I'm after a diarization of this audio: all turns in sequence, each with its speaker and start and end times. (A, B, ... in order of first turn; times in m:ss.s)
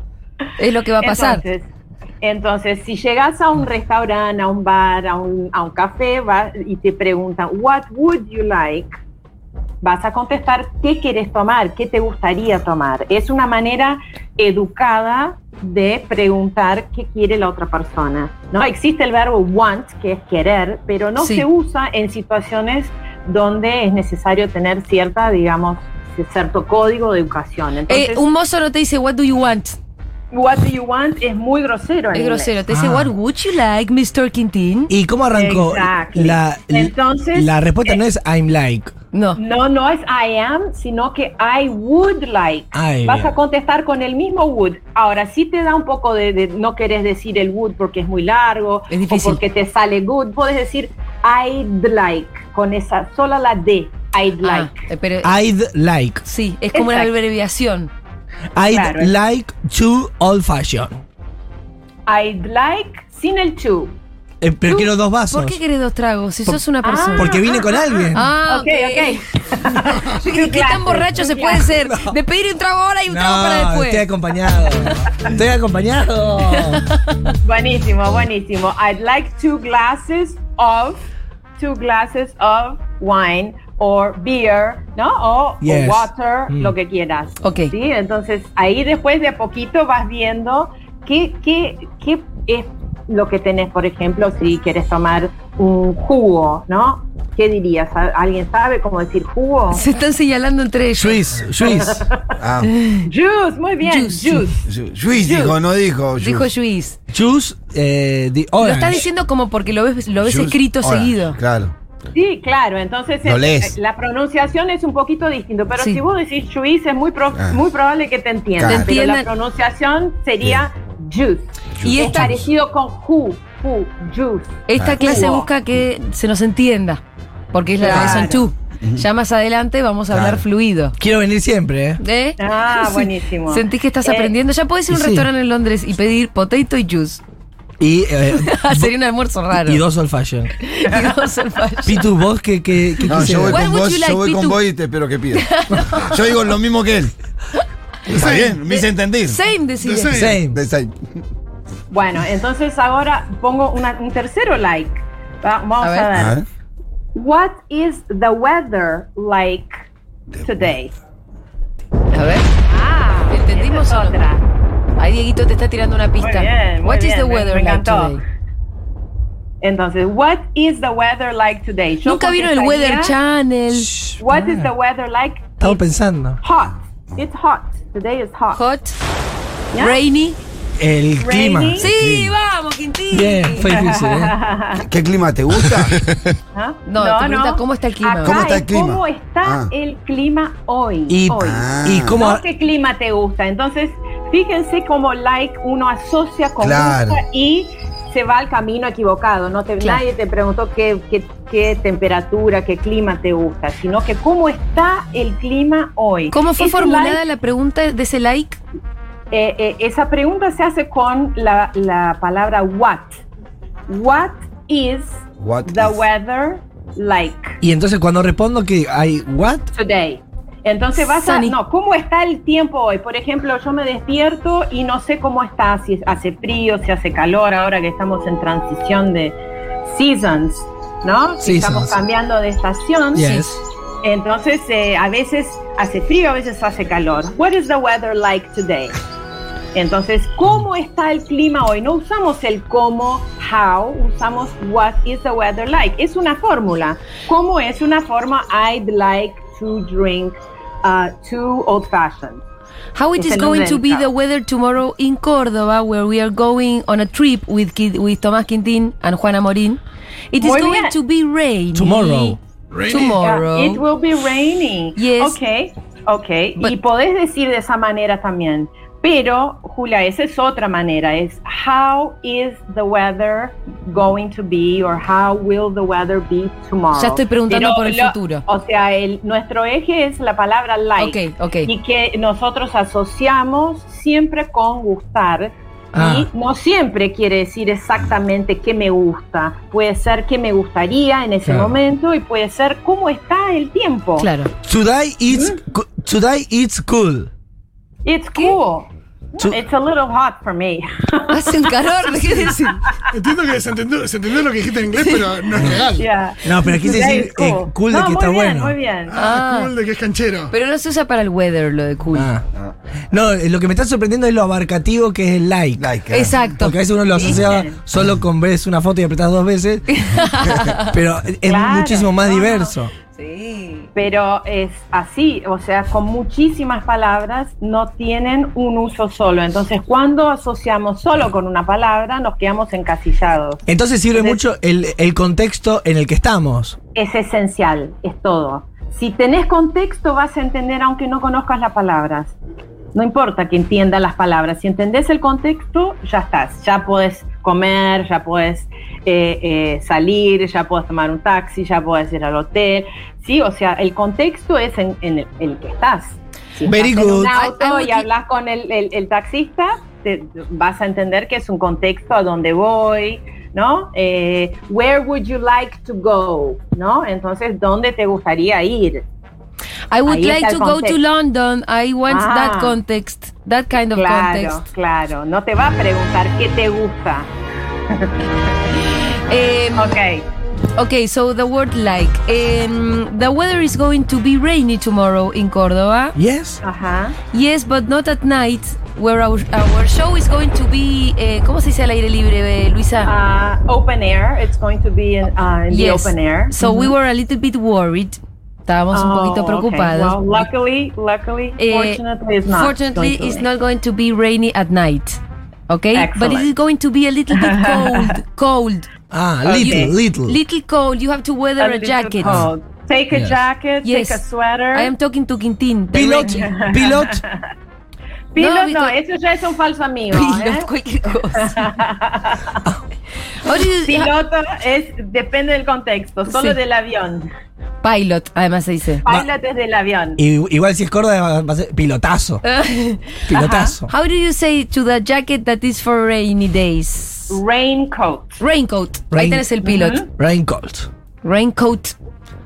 0:00.6-0:01.4 A
0:01.0-0:01.7 B
0:02.2-0:08.9 B
0:09.8-0:28.2 B
0:21.2-0:21.4 A
0:27.9-0:29.8 A
0:30.3-0:32.5 B
0:32.1-0:34.9 A
0:32.7-0:33.1 C
0:34.9-0:38.9 C
0:35.3-0:38.0 B
0:39.1-0:39.4 A
0:39.4-0:54.7 B
0:42.7-0:43.3 C
0:48.9-0:49.4 A
0:54.4-0:55.4 A
0:55.2-0:56.2 C
0:56.2-0:57.9 A
0:56.7-0:57.1 B
0:58.5-1:01.0 C
0:58.6-0:59.1 B
1:02.1-1:04.0 B
1:04.4-1:05.6 C
1:05.3-1:07.4 A
1:06.8-1:11.7 B
1:07.1-1:08.2 C
1:08.1-1:09.2 A
1:09.9-1:14.1 A
1:11.9-1:12.1 C
1:13.1-1:16.8 C
1:16.4-1:17.3 A
1:17.4-1:21.0 B
1:21.6-1:39.8 B
1:25.6-1:26.7 C
1:27.4-1:27.7 A
1:39.7-1:41.2 A
1:41.0-1:42.0 C
1:41.6-1:42.2 B
1:42.4-1:42.7 D
1:42.6-1:43.1 A
1:43.1-1:45.6 B
1:43.8-1:44.5 A
1:44.6-1:46.5 D
1:46.2-1:47.0 A
1:47.1-1:49.1 C
1:48.6-1:51.4 A
1:50.2-1:51.7 D
1:52.1-2:05.5 B
1:53.2-1:53.7 D
1:58.6-1:58.9 D
1:58.6-1:59.3 A
2:01.8-2:02.4 D
2:01.8-2:02.3 A
2:04.7-2:07.0 A
2:04.8-2:05.3 D
2:07.5-2:10.9 A
2:07.8-2:08.5 B
2:07.9-2:08.3 D
2:10.1-2:10.4 D
2:11.0-2:12.0 C
2:12.0-2:17.2 A
2:12.4-2:14.3 B
2:14.9-2:15.3 C
2:17.8-2:18.9 C
2:18.3-2:19.8 A
2:19.5-2:20.5 C
2:20.6-2:22.0 A
2:21.8-2:23.6 C
2:23.0-2:27.1 D
2:23.5-2:24.6 A
2:25.3-2:26.1 A
2:28.1-2:28.7 E
2:28.1-2:29.4 D
2:29.2-2:30.2 A
2:29.8-2:30.4 E
2:30.1-2:30.6 C
2:30.5-2:30.9 D
2:31.9-2:36.4 B
2:35.8-2:36.1 A
2:36.1-2:36.4 D
2:37.1-2:39.7 B
2:40.4-2:40.9 B
2:42.1-2:42.4 A
2:42.6-2:44.5 B
2:43.3-2:44.2 A
2:45.0-2:48.2 A
2:46.2-2:48.2 B
2:49.6-2:53.1 B
2:52.0-2:53.9 A
2:53.7-2:54.7 C
2:54.2-2:55.9 B
2:55.6-2:56.4 C
2:56.4-2:58.6 B
2:58.5-2:59.0 A
2:59.7-3:00.0 B
2:59.8-3:00.4 A
3:00.8-3:01.9 C
3:01.2-3:01.9 B
3:01.8-3:03.8 A
3:01.9-3:02.3 D
3:03.1-3:04.4 C
3:03.6-3:04.8 B
3:04.7-3:06.3 D
3:06.5-3:27.2 B
3:06.8-3:08.6 A
3:08.2-3:09.7 D
3:11.1-3:12.4 C
3:11.4-3:12.2 D
3:16.6-3:17.2 D
3:26.3-3:28.6 A
3:29.3-3:33.1 B
3:33.9-3:37.6 B
3:35.4-3:36.0 D
3:37.6-3:39.7 C
3:39.7-3:49.4 B
3:41.2-3:41.5 A
3:49.9-3:58.9 B
3:51.4-3:52.0 C
3:53.1-3:53.6 C
3:59.7-4:12.4 B
4:12.9-4:19.8 A
4:13.2-4:14.0 B
4:20.3-4:23.8 A
4:20.4-4:21.0 B
4:21.7-4:22.4 C
4:22.7-4:23.2 E
4:23.2-4:54.3 B
4:25.0-4:25.4 A
4:36.9-4:38.4 A
4:41.0-4:41.7 A
4:45.9-4:46.3 C
4:51.5-4:51.7 C
4:54.2-4:54.5 A
4:54.6-4:57.3 C
4:55.3-4:55.6 B
4:58.0-5:01.8 B
5:01.3-5:02.8 A
5:03.1-5:06.1 E
5:05.0-5:05.3 A
5:05.6-5:05.8 C
5:05.9-5:09.2 B
5:06.4-5:08.7 C
5:09.1-5:10.5 E
5:09.2-5:09.7 A
5:10.5-5:12.3 A
5:12.1-5:12.4 C
5:13.1-5:15.9 C
5:15.8-5:16.4 D
5:16.1-5:16.7 A
5:16.6-5:20.1 C
5:17.1-5:17.8 B
5:19.9-5:20.9 A
5:20.8-5:22.9 C
5:21.4-5:22.7 B
5:23.1-5:23.9 A
5:23.9-5:33.6 B
5:33.7-5:36.8 C
5:34.1-5:34.4 B
5:36.9-5:42.4 B
5:42.9-6:09.0 B
5:56.6-5:57.4 C
5:57.3-5:58.0 A
6:09.9-6:14.6 A
6:10.0-6:11.0 B
6:12.1-6:12.8 B
6:13.9-6:17.3 B
6:18.9-6:19.9 A
6:19.8-6:20.2 B
6:20.8-6:26.2 A
6:26.2-6:26.6 C
6:26.6-6:27.2 B
6:27.3-6:33.1 A
6:33.0-6:36.9 B
6:35.7-6:40.4 A
6:38.9-6:43.4 B
6:41.6-6:48.9 A
6:45.9-6:46.5 B
6:47.3-6:48.1 B
6:49.1-6:50.4 C
6:49.4-6:49.9 B
6:49.6-6:52.4 A
6:51.6-6:54.9 B
6:53.1-6:53.4 C
6:53.8-6:54.2 A
6:54.7-6:56.5 A
6:55.9-6:57.2 C
6:56.3-6:57.4 B
6:58.3-7:00.7 B
6:58.4-6:58.9 A
7:00.1-7:01.7 A
7:01.4-7:02.6 B
7:03.4-7:04.1 A
7:03.8-7:07.3 B
7:06.3-7:06.6 A
7:07.8-7:09.0 A
7:09.0-7:10.2 B
7:10.2-7:12.4 C
7:12.4-7:13.2 A
7:13.3-7:13.9 C
7:13.3-7:13.8 B
7:13.9-7:17.4 A
7:17.3-7:18.4 B
7:18.4-7:20.0 A
7:19.1-7:19.5 C
7:19.6-7:20.1 B
7:20.1-7:20.9 C
7:21.2-7:22.0 A